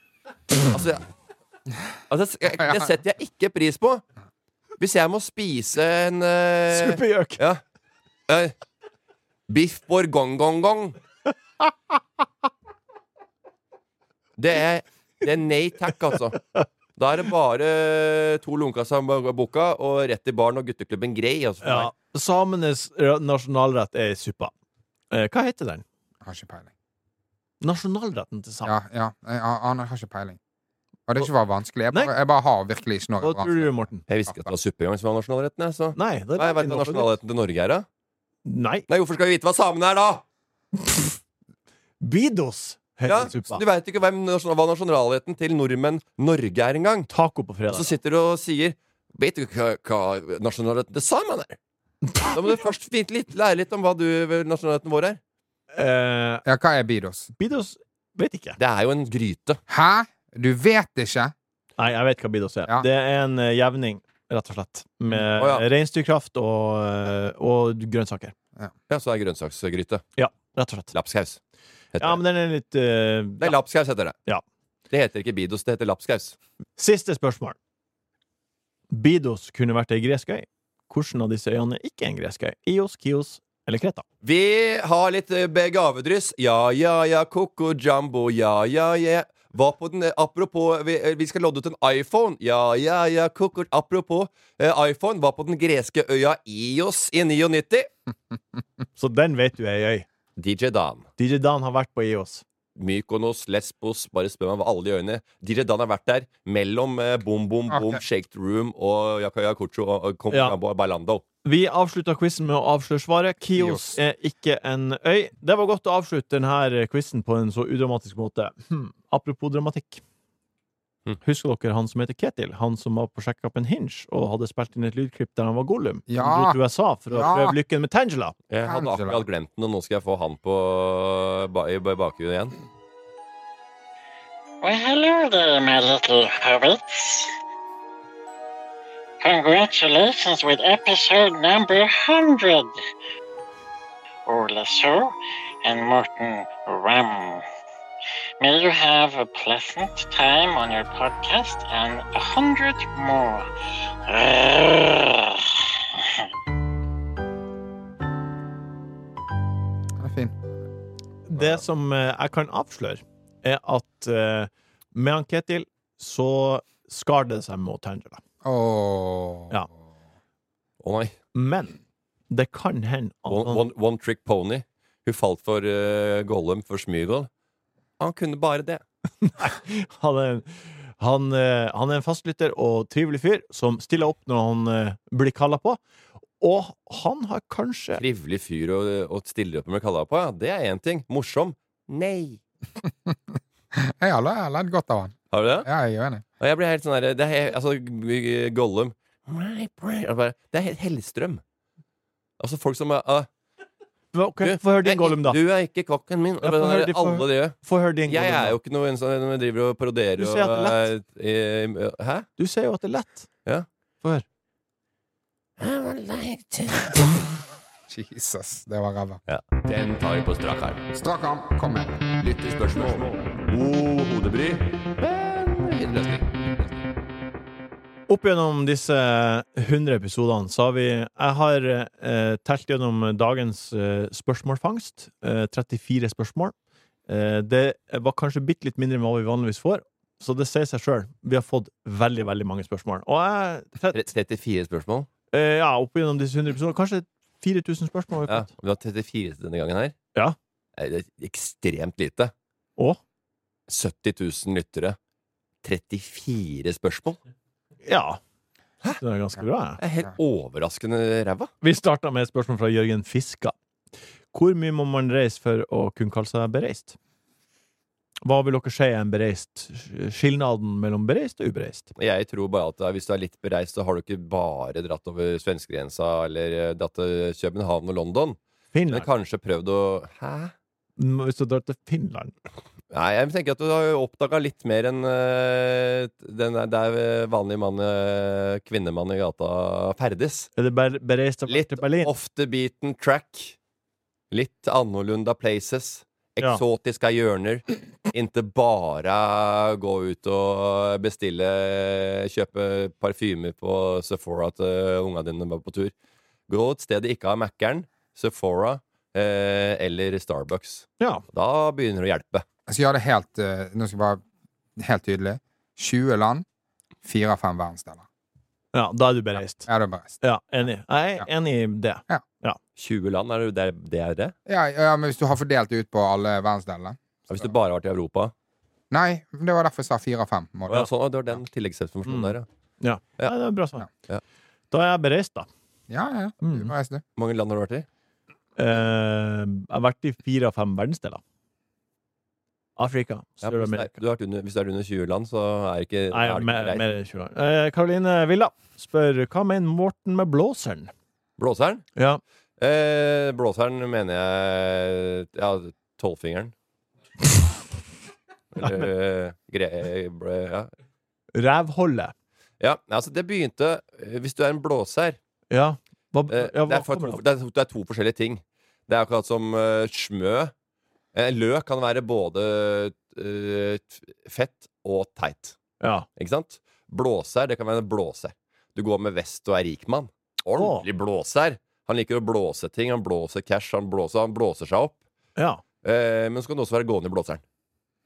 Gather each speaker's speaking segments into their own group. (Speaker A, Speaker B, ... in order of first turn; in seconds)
Speaker A: 0.7-1.0, 2.1-4.0, 4.8-7.6, 8.3-8.5, 9.5-10.9, 14.4-16.4, 16.9-21.9, 34.1-37.9, 38.9-40.2, 43.1-47.1, 47.7-51.6, 52.3-55.2, 58.6-59.6, 65.1-65.6, 68.9-70.0, 70.9-71.4, 71.9-72.2, 73.4-74.2, 74.9-76.3, 84.2-97.9, 100.3-101.1, 102.8-111.2, 128.5-132.6, 170.8-171.1, 173.3-177.3, 178.0-178.8, 188.0-192.4, 195.3-195.7, 196.4-201.4, 202.4-203.3, 204.4-212.3, 215.6-217.1, 219.3-220.8, 222.2-226.7, 243.9-245.1, 248.3-249.9, 250.8-252.3, 253.7-255.0, 255.6-257.2, 259.8-261.5, 271.9-278.4, 278.9-280.5, 282.9-290.5, 291.5-293.6, 294.3-305.9, 306.5-312.4, 322.8-324.3, 327.3-328.3, 330.7-332.4, 337.1-337.9, 343.4-346.8, 351.4-351.9, 352.6-356.5, 358.5-360.7, 362.6-365.2, 366.3-370.5, 371.1-375.6, 376.1-385.0, 385.8-387.4
Speaker B: 6.7-7.4, 21.6-24.5, 25.1-25.8, 27.6-28.7, 33.2-34.0, 35.9-37.1, 38.4-38.9, 40.8-41.1, 42.0-43.6, 47.1-47.9, 55.7-56.4, 57.4-58.6, 61.8-68.3, 70.2-70.9, 72.0-73.5, 76.8-77.5, 78.9-84.0, 99.0-100.1, 101.2-102.4, 110.3-110.5, 111.4-120.0, 121.2-128.3, 161.3-168.2, 171.3-171.8, 172.3-173.6, 179.2-185.8, 186.4-188.0, 204.1-205.4, 206.4-208.5, 210.2-210.9, 212.4-213.3, 228.1-236.5, 237.1-244.1, 245.3-248.5, 257.8-258.2, 259.0-259.8, 261.6-263.5, 264.3-266.9, 268.2-271.9, 278.7-279.1, 281.0-282.3, 290.6-292.1, 318.7-319.7, 320.2-322.6, 332.1-333.9, 334.7-335.5, 336.4-336.7, 338.6-341.2, 342.8-343.9, 346.1-350.9, 351.9-352.2, 358.6-358.9, 361.3-362.1, 365.5-367.2, 375.8-376.1, 380.6-380.8, 385.4-385.6
Speaker C: 26.2-26.7, 28.6-30.4, 31.1-34.5, 56.5-57.3, 59.7-61.3, 107.7-108.0, 113.5-114.0, 126.1-126.6, 127.1-127.6, 128.6-129.2, 160.0-160.4, 168.4-169.7, 192.8-193.2, 193.7-196.2, 217.9-219.2, 220.9-222.0, 312.7-314.2, 314.8-316.4, 317.0-318.0, 319.5-320.2, 324.5-327.5, 328.9-330.9, 335.9-337.0
Speaker D: 134.6-137.3, 139.2-142.8, 144.2-147.4, 148.4-153.5, 154.0-156.3